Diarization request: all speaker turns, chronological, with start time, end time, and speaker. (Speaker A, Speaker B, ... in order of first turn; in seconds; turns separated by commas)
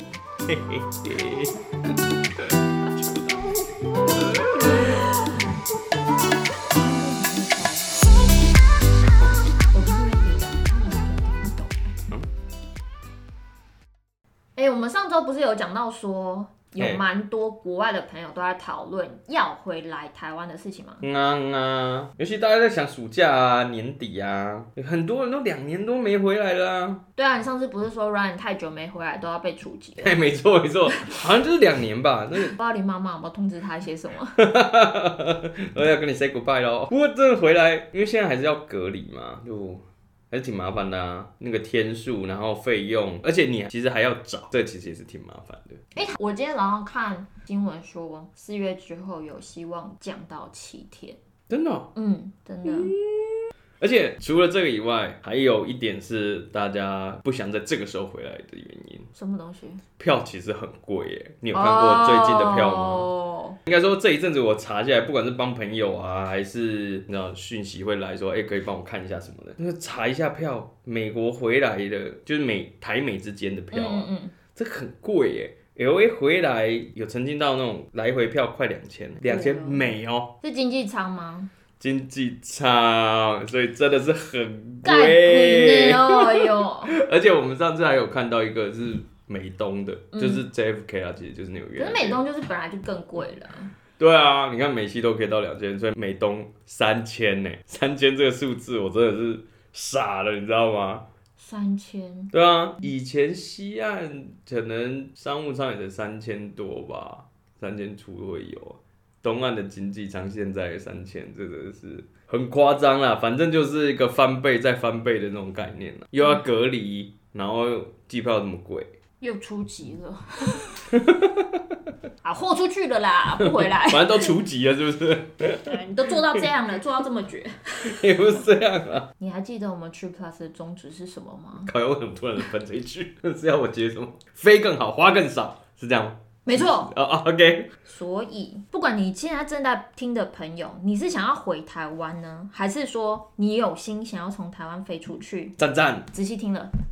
Speaker A: 0.5-1.6, Speaker A: 2.4-3.5, Speaker B: 4.3-5.2, Speaker A: 5.3-5.6, Speaker B: 6.8-8.2, Speaker B: 9.7-11.9, Speaker B: 14.6-21.0, Speaker A: 16.8-17.0, Speaker A: 21.0-27.0, Speaker B: 27.2-30.2, Speaker A: 30.0-32.5, Speaker B: 32.4-34.4, Speaker A: 34.4-45.8, Speaker B: 45.9-51.2, Speaker A: 51.5-51.9, Speaker B: 52.0-52.9, Speaker A: 52.6-59.1, Speaker B: 59.1-59.8, Speaker A: 60.0-63.1, Speaker B: 61.5-63.6, Speaker A: 63.7-80.3, Speaker B: 73.7-74.4, Speaker B: 79.2-79.9, Speaker B: 80.4-81.5, Speaker A: 81.8-92.2, Speaker B: 84.8-86.9, Speaker B: 90.1-90.5, Speaker B: 91.8-93.7, Speaker A: 94.0-101.0, Speaker B: 101.4-102.3, Speaker A: 102.3-118.9, Speaker B: 119.2-120.9, Speaker A: 120.9-121.5, Speaker B: 122.2-124.3, Speaker A: 123.4-125.8, Speaker B: 125.7-128.0, Speaker A: 127.8-129.1, Speaker B: 129.2-131.7, Speaker A: 131.6-137.7, Speaker B: 136.4-136.9, Speaker B: 137.9-145.6, Speaker A: 145.6-146.1, Speaker B: 146.1-146.7